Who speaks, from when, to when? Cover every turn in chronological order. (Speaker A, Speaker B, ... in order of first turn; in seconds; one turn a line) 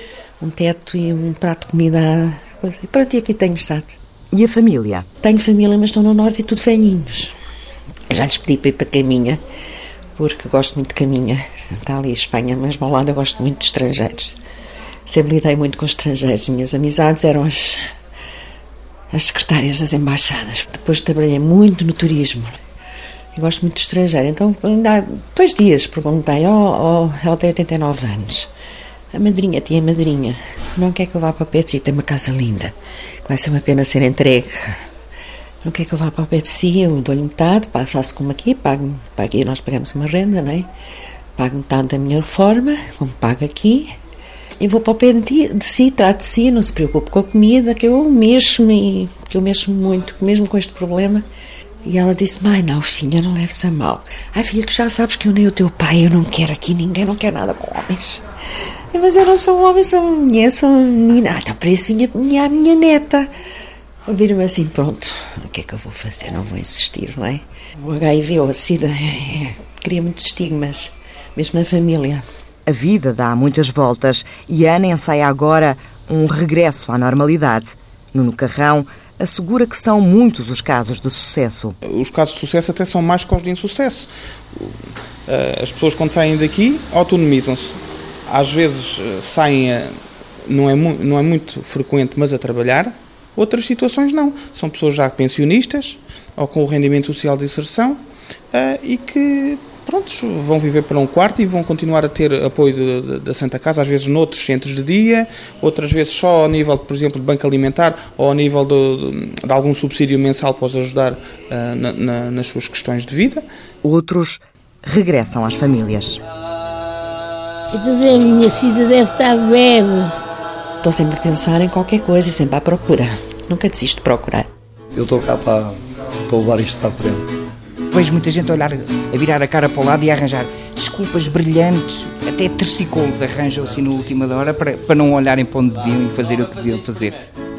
Speaker A: 0.4-4.0
Speaker B: 4.3-5.0
Speaker A: 5.2-7.3
Speaker A: 8.1-9.4
Speaker A: 10.1-14.3
Speaker A: 15.1-17.8
Speaker A: 19.1-22.5
Speaker A: 23.3-28.5
Speaker A: 29.1-32.7
Speaker A: 33.2-34.7
Speaker A: 35.6-40.7
Speaker A: 41.4-43.9
Speaker A: 44.6-51.2
Speaker A: 51.8-58.3
Speaker A: 58.9-63.3
Speaker A: 64.0-72.2
Speaker B: 72.7-81.8
Speaker C: 81.8-98.0
Speaker C: 98.5-113.4
Speaker B: 113.8-116.2
Speaker D: 117.7-120.1
Speaker A: 120.8-124.5
Speaker E: 124.9-127.2
Speaker F: 127.9-137.2